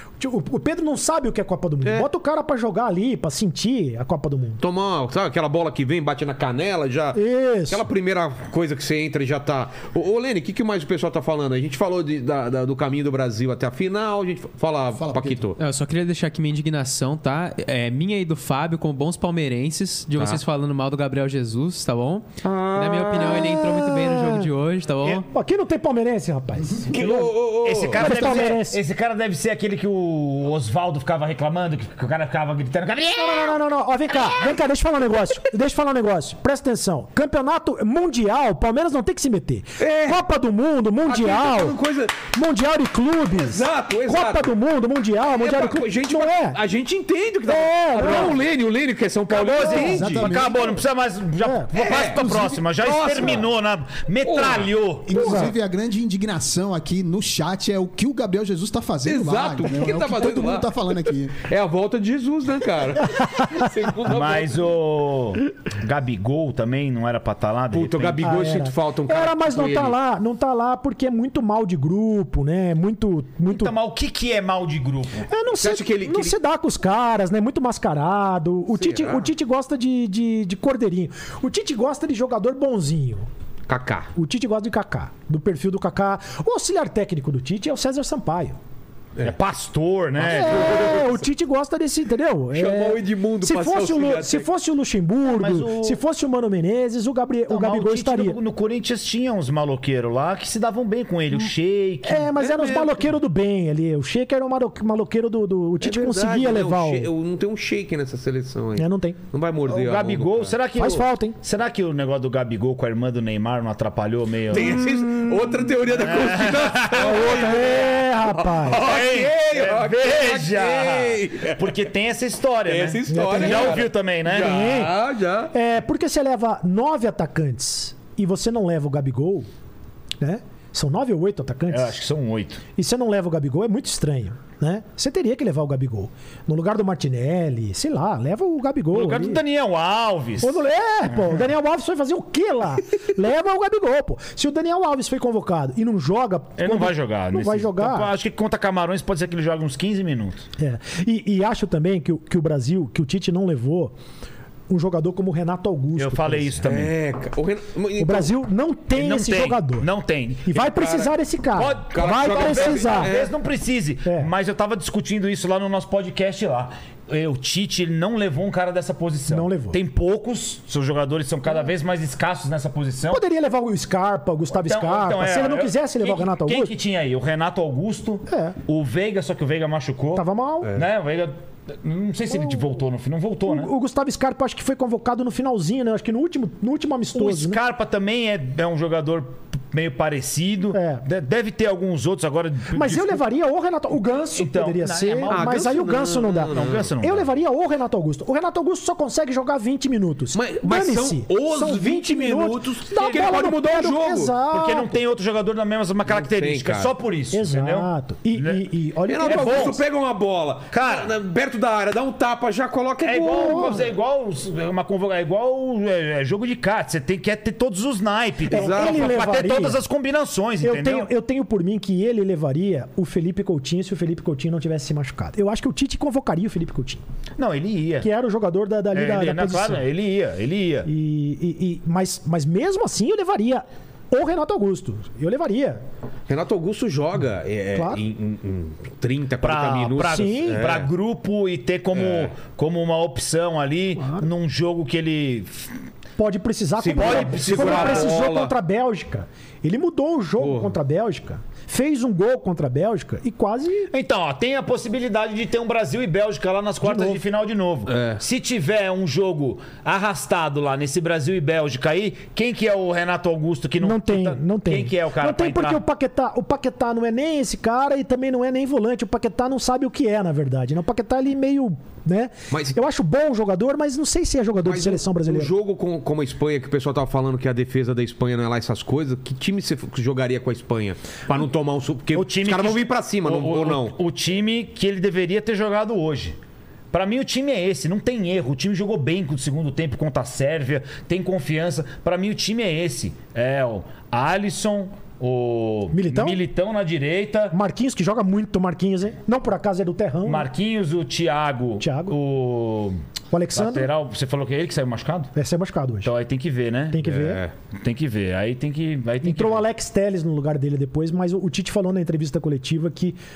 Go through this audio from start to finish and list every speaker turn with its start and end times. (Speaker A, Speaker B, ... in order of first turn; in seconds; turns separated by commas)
Speaker A: 0.2-4.6, Speaker B: 4.6-15.6, Speaker A: 7.1-7.8, Speaker C: 15.0-15.4, Speaker D: 15.6-25.3, Speaker B: 22.4-23.5, Speaker A: 23.2-24.4, Speaker A: 25.2-27.3, Speaker B: 26.9-28.1, Speaker E: 26.9-33.6, Speaker A: 27.9-28.8, Speaker A: 33.1-46.6, Speaker B: 39.8-40.2, Speaker B: 41.1-42.2, Speaker B: 43.3-44.5, Speaker B: 45.3-50.5, Speaker A: 47.5-48.4, Speaker E: 48.0-48.3, Speaker E: 49.3-55.5, Speaker C: 49.6-50.7, Speaker A: 49.7-50.2, Speaker A: 51.4-51.7, Speaker B: 51.7-53.5, Speaker B: 54.2-54.7, Speaker C: 55.1-61.4, Speaker A: 55.1-55.5, Speaker B: 59.0-64.7, Speaker A: 63.2-63.4, Speaker E: 64.0-68.3, Speaker B: 67.7-70.0, Speaker A: 68.2-73.7, Speaker E: 73.5-75.3, Speaker A: 75.3-83.3, Speaker B: 75.5-76.4, Speaker B: 78.8-79.3, Speaker B: 83.7-84.1, Speaker A: 84.2-88.6, Speaker E: 89.2-91.0, Speaker A: 90.2-98.4, Speaker B: 90.2-91.2, Speaker B: 92.5-94.5, Speaker E: 95.2-96.0, Speaker E: 97.5-102.3, Speaker A: 102.0-107.1, Speaker B: 102.4-103.1, Speaker B: 105.8-110.5, Speaker A: 108.8-109.2, Speaker E: 109.7-114.8, Speaker A: 110.8-111.4, Speaker B: 114.5-121.8, Speaker E: 116.0-117.8, Speaker A: 116.9-118.8, Speaker E: 118.7-124.7, Speaker B: 122.7-125.5, Speaker A: 123.1-125.0, Speaker A: 125.5-129.5, Speaker A: 130.2-132.0, Speaker E: 131.7-132.6, Speaker A: 132.8-139.4, Speaker E: 138.9-141.4, Speaker A: 140.4-148.1, Speaker E: 146.6-150.5, Speaker A: 150.6-153.9, Speaker A: 154.7-156.7, Speaker E: 156.0-156.9, Speaker B: 156.7-158.3, Speaker A: 158.0-159.9, Speaker E: 158.9-160.6, Speaker A: 160.4-163.1, Speaker B: 160.6-161.1, Speaker E: 161.6-173.2, Speaker B: 161.9-163.3, Speaker A: 164.1-164.3, Speaker A: 169.3-169.8, Speaker A: 173.1-176.7, Speaker E: 174.5-183.7, Speaker A: 178.3-178.6, Speaker A: 180.2-180.7, Speaker A: 183.5-187.6, Speaker E: 187.1-193.2, Speaker A: 190.7-191.0, Speaker A: 192.7-204.9, Speaker E: 194.3-195.6, Speaker B: 195.3-196.9, Speaker E: 196.5-197.3, Speaker B: 200.3-204.4, Speaker E: 203.0-203.3, Speaker E: 204.5-208.6, Speaker B: 206.1-206.9, Speaker A: 207.3-209.8, Speaker B: 209.1-213.8, Speaker E: 209.2-209.8, Speaker E: 210.7-211.1, Speaker E: 213.0-221.1, Speaker A: 213.3-213.9, Speaker B: 218.5-219.2, Speaker A: 218.5-219.8, Speaker A: 220.6-227.0, Speaker E: 227.4-228.1, Speaker A: 228.0-229.9, Speaker E: 228.9-230.9, Speaker A: 230.8-235.8, Speaker B: 236.3-240.9, Speaker A: 237.8-238.0, Speaker E: 239.4-245.7, Speaker A: 240.0-240.7, Speaker B: 242.0-242.3, Speaker A: 246.2-253.9, Speaker B: 246.8-248.5, Speaker E: 246.9-248.3, Speaker B: 250.4-250.8, Speaker E: 253.9-265.8, Speaker A: 256.8-257.2, Speaker B: 257.9-258.2, Speaker A: 263.8-275.5, Speaker B: 272.5-272.8, Speaker B: 274.6-284.0, Speaker E: 282.1-286.4, Speaker E: 286.9-297.6, Speaker A: 295.9-296.4, Speaker A: 297.5-300.5, Speaker E: 300.2-303.0, Speaker A: 301.8-302.2, Speaker A: 303.3-303.9, Speaker E: 303.5-305.3, Speaker A: 305.4-306.1, Speaker E: 306.0-307.1, Speaker A: 306.9-307.4, Speaker B: 307.0-307.5, Speaker E: 307.7-309.7, Speaker A: 309.2-313.2